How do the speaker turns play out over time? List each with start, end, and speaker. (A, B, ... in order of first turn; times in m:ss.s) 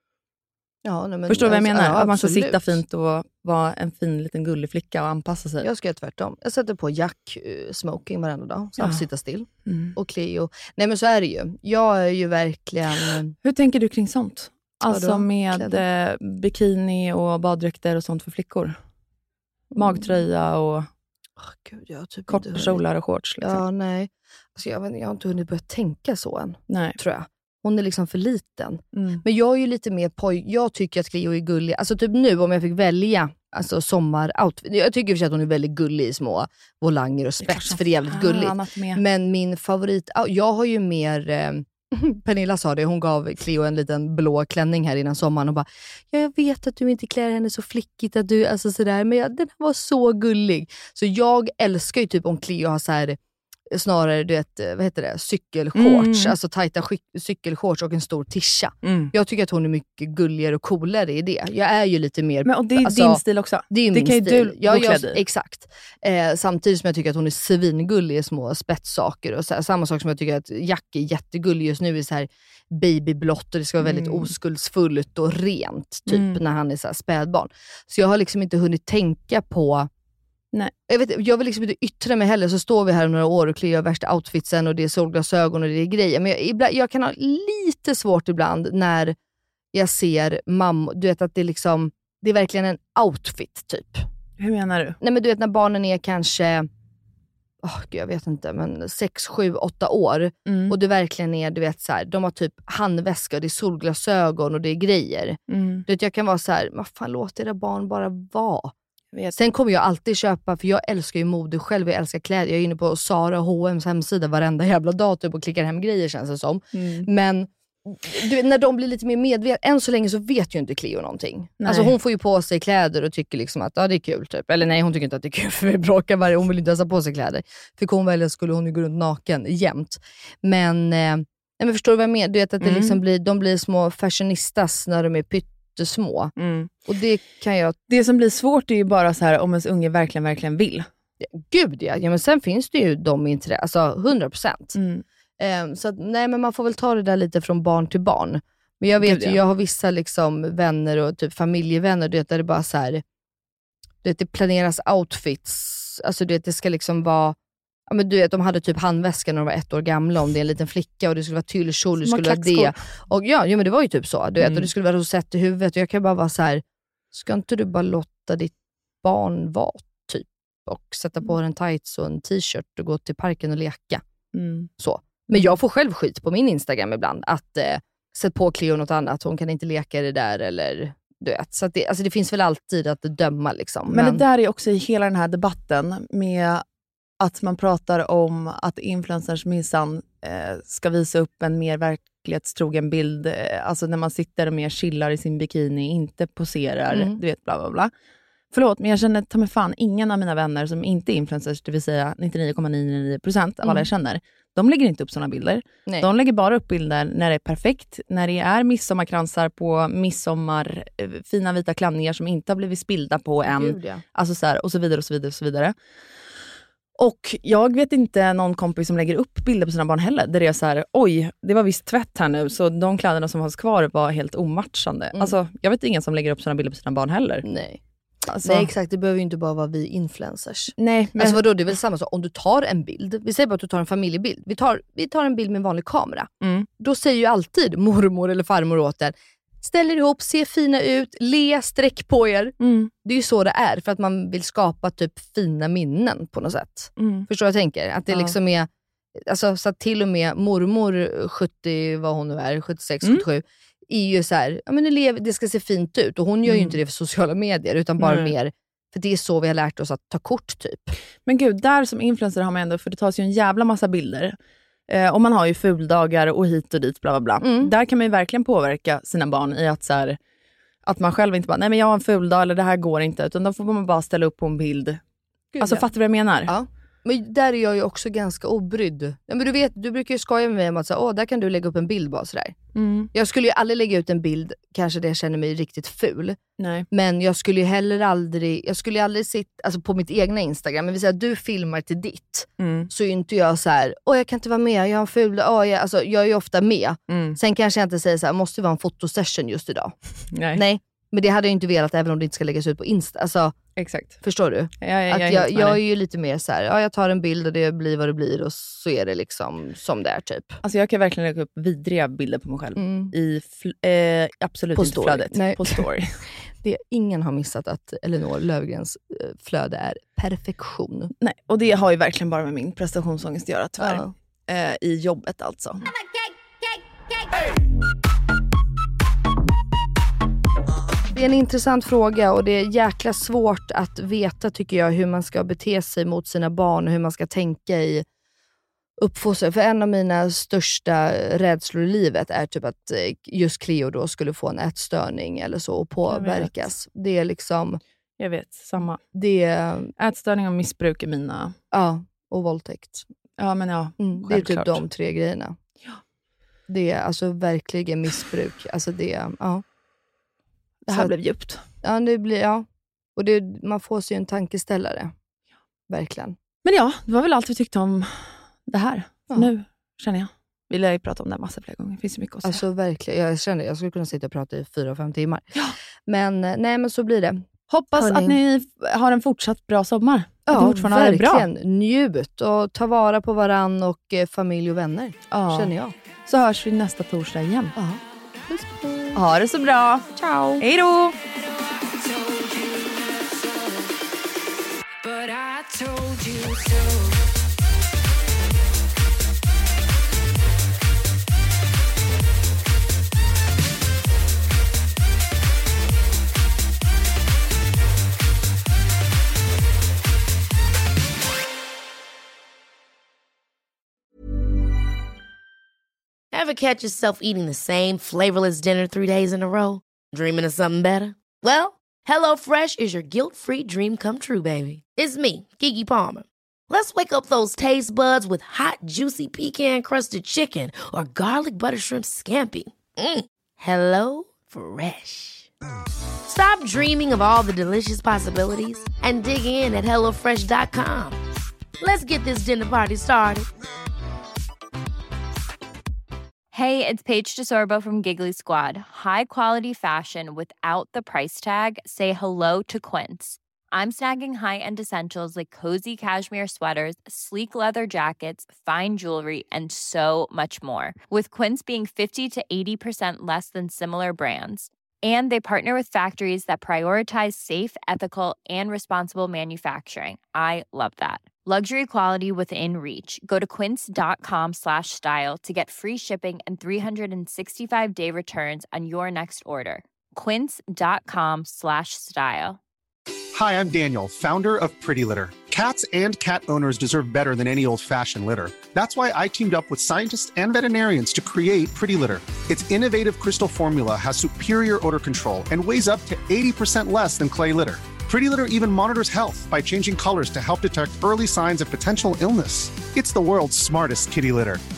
0:00.8-0:02.8 A
0:01.3-0:05.7 B
0:05.6-0:13.3 A
0:08.8-0:09.0 B
0:09.7-0:10.0 B
0:13.4-0:18.8 B
0:14.9-0:15.8 A
0:19.8-0:20.9 B
0:19.8-0:20.1 A
0:21.4-0:22.8 A
0:22.3-0:23.6 B
0:23.4-0:53.2 A
0:26.7-0:27.0 B
0:28.9-0:29.2 B
0:37.4-0:39.0 B
0:53.7-1:19.9 A
0:55.8-0:56.4 B
0:58.8-0:59.1 B
1:02.4-1:05.2 B
1:13.8-1:14.3 B
1:16.1-1:16.4 B
1:20.9-1:29.2 A
1:29.7-1:34.1 A
1:34.4-1:35.0 B
1:35.0-1:36.7 A
1:37.6-1:48.7 A
1:40.5-1:40.8 B
1:45.5-1:45.8 B
1:49.1-1:49.5 B
1:49.4-2:16.3 A
1:56.7-1:57.1 B
2:01.6-2:02.0 B
2:12.6-2:13.0 B
2:16.4-2:16.7 B
2:16.9-2:17.8 A
2:17.9-2:20.9 B
2:21.2-2:24.8 A
2:24.8-2:25.0 B
2:25.4-2:33.0 A
2:29.0-2:29.4 B
2:34.0-2:37.4 A
2:37.9-2:54.0 A
2:42.0-2:42.7 B
2:44.4-2:44.7 B
2:54.3-2:54.7 B
2:54.8-3:04.2 A
3:03.9-3:06.6 B
3:07.2-3:17.9 B
3:16.9-3:17.2 A
3:18.5-3:35.8 B
3:23.6-3:23.9 A
3:33.4-3:34.0 A
3:37.0-3:47.4 B
3:47.4-3:47.8 A
3:48.3-3:48.7 B
3:48.4-4:08.7 A
3:50.8-3:51.4 B
3:56.4-3:56.7 B
4:02.6-4:02.9 B
4:07.0-4:07.3 B
4:08.1-4:08.4 B
4:09.2-4:21.0 A
4:16.4-4:16.8 B
4:18.0-4:18.3 B
4:21.3-4:24.4 B
4:24.9-4:30.2 B
4:27.4-4:27.7 A
4:30.8-4:35.0 B
4:35.5-4:35.9 A
4:35.6-4:36.5 B
4:36.5-4:42.6 A
4:42.8-4:43.1 B
4:43.1-4:46.4 A
4:46.6-4:46.9 B
4:46.9-5:00.0 A
4:52.6-4:52.9 B
4:57.1-4:57.4 B
5:00.3-5:00.6 B
5:00.5-5:03.6 A
5:03.8-5:04.2 B
5:04.2-5:10.6 A
5:04.8-5:05.8 B
5:10.6-5:16.2 B
5:12.8-5:13.1 A
5:14.8-5:21.1 A
5:21.2-5:25.8 B
5:23.8-5:24.1 A
5:31.1-5:38.0 A
5:39.0-5:47.8 A
5:46.1-5:46.7 B
5:48.2-5:49.0 B
5:49.1-5:49.9 A
5:50.0-5:51.6 B
5:51.7-5:53.1 A
5:53.4-5:54.8 B
5:54.0-5:55.6 A
5:56.7-5:59.6 A
6:00.8-6:01.6 B
6:01.8-6:05.1 A
6:05.9-6:06.4 A
6:06.6-6:12.6 B
6:12.4-6:18.4 A
6:17.7-6:21.5 B
6:20.5-6:26.0 A
6:25.3-6:25.7 B
6:26.3-6:27.8 B
6:27.8-6:29.2 A
6:29.2-6:31.2 B
6:30.2-6:30.6 A
6:32.0-6:33.4 C
6:35.0-6:37.0 C
6:56.3-7:15.5 D
7:16.3-7:21.2 D
7:21.8-7:23.5 D
7:26.5-8:02.6 C
8:03.3-8:24.6 E